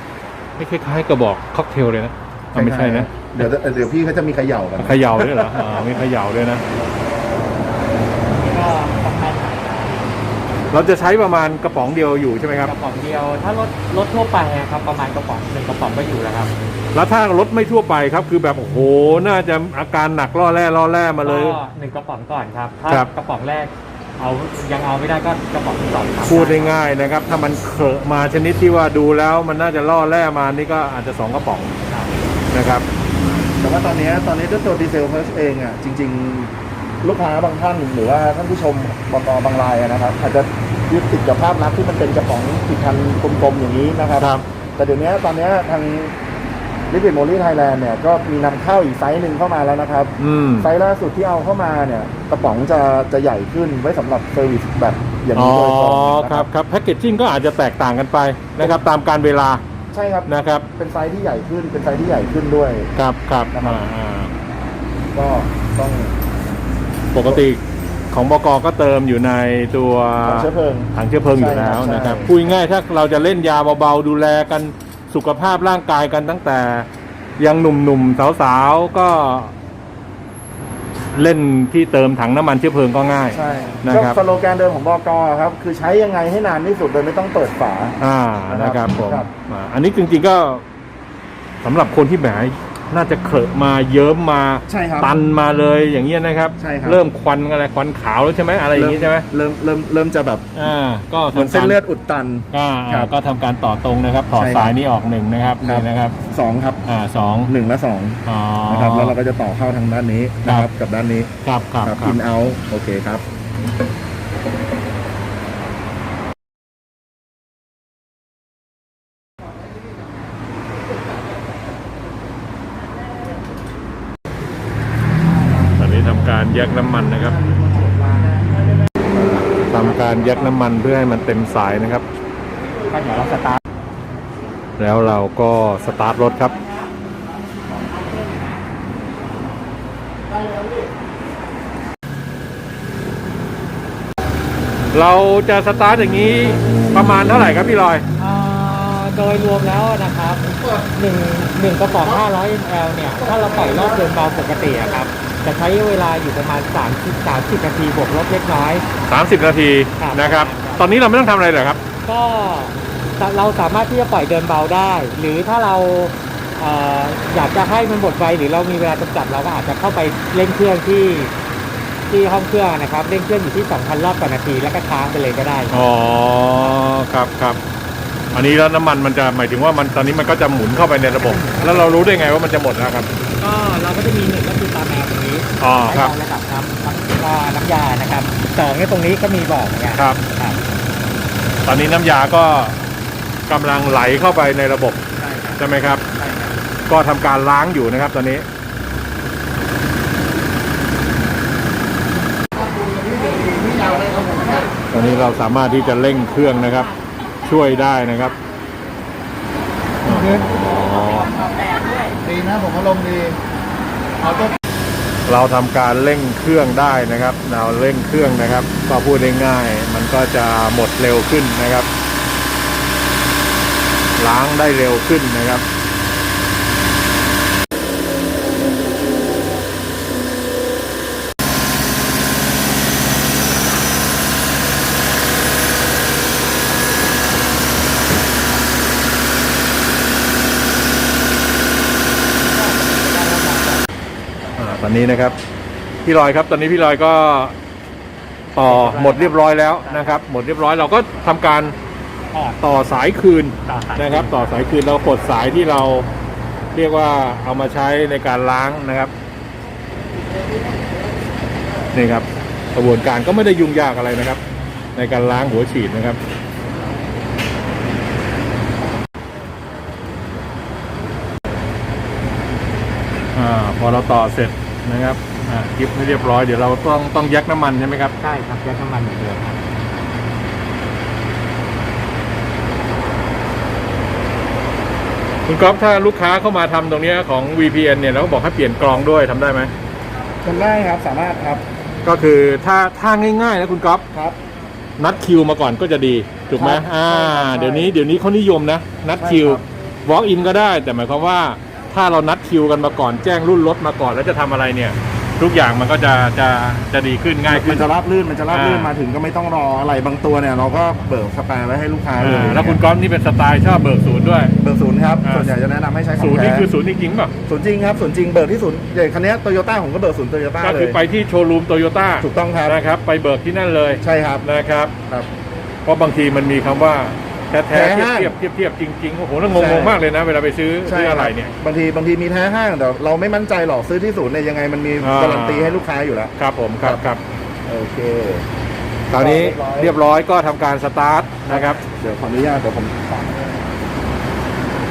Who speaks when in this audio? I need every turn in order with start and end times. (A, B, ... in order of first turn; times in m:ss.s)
0:00.6-0:03.5 A
0:02.5-0:05.8 B
0:04.8-0:06.6 A
0:08.3-0:10.0 C
0:10.7-0:12.7 A
0:12.6-0:16.5 C
0:16.9-0:21.6 A
0:21.2-0:26.8 C
0:26.2-0:31.7 A
0:31.9-0:32.2 C
0:32.5-0:32.8 A
0:33.6-0:46.1 B
0:44.2-0:44.4 A
0:46.9-0:56.5 B
0:50.2-0:50.7 A
0:55.3-0:59.6 A
0:58.6-0:58.8 B
0:59.9-1:02.9 B
1:00.3-1:00.6 A
1:03.0-1:04.3 A
1:03.5-1:03.8 B
1:05.1-1:06.1 B
1:07.1-1:16.9 A
1:10.2-1:12.5 B
1:17.4-1:19.5 A
1:21.1-1:24.2 A
1:23.3-1:28.0 B
1:28.0-1:30.6 A
1:28.5-1:29.3 B
1:31.6-1:39.2 A
1:34.7-1:35.2 B
1:36.6-1:37.0 B
1:38.7-1:40.5 B
1:40.6-1:41.8 A
1:41.3-1:43.1 B
1:42.5-1:46.2 A
1:44.3-1:44.8 B
1:45.6-1:46.8 B
1:46.8-1:47.5 A
1:47.4-1:51.3 B
1:48.2-1:49.2 A
1:51.4-1:52.2 A
1:51.8-1:53.2 B
2:05.8-2:07.4 A
2:07.3-2:08.6 B
2:09.1-2:12.1 A
2:09.7-2:10.4 B
2:12.8-2:13.6 C
2:14.8-2:16.6 A
2:24.9-2:28.0 A
2:28.2-2:38.8 C
2:39.1-2:41.8 A
2:40.0-2:40.9 C
2:42.0-2:51.3 C
2:52.1-2:55.8 C
2:55.7-2:57.6 A
2:58.3-3:03.1 A
3:01.0-3:02.2 C
3:03.4-3:10.6 C
3:05.6-3:06.1 A
3:09.9-3:10.2 A
3:11.6-3:12.8 A
3:13.5-3:15.0 A
3:15.2-3:15.6 C
3:15.6-3:16.0 A
3:16.1-3:16.5 C
3:16.9-3:18.4 A
3:23.2-3:24.4 B
3:24.9-3:26.9 A
3:27.4-3:28.4 A
3:30.0-3:31.4 A
3:32.3-3:33.3 B
3:35.3-3:41.9 A
3:44.2-3:45.6 A
4:02.5-4:03.8 C
4:04.6-4:05.4 A
4:06.0-4:07.5 A
4:08.5-4:11.7 A
4:08.6-4:10.2 C
4:12.3-4:12.6 C
4:12.6-4:16.1 A
4:13.6-4:14.3 C
4:16.7-4:19.1 A
4:21.9-4:24.4 A
4:24.9-4:26.2 A
4:33.3-4:38.1 A
4:38.2-4:39.7 C
4:45.5-4:49.7 A
4:50.4-4:51.6 B
4:52.0-4:54.0 A
4:55.0-5:07.9 A
4:56.6-4:57.9 B
4:59.2-4:59.6 B
5:07.5-5:12.8 B
5:08.5-5:08.9 A
5:12.2-5:14.5 A
5:14.6-5:16.7 B
5:15.2-5:15.5 A
5:16.2-5:17.3 A
5:17.5-5:21.0 B
5:20.6-5:24.9 A
5:22.2-5:22.8 B
5:24.0-5:24.4 B
5:25.8-5:31.5 A
5:27.7-5:28.4 B
5:29.5-5:30.0 B
5:30.8-5:37.0 B
5:35.0-5:35.8 A
5:36.4-5:37.2 A
5:37.6-5:38.4 B
5:39.1-5:41.8 A
5:39.1-5:39.9 B
5:41.5-5:43.1 B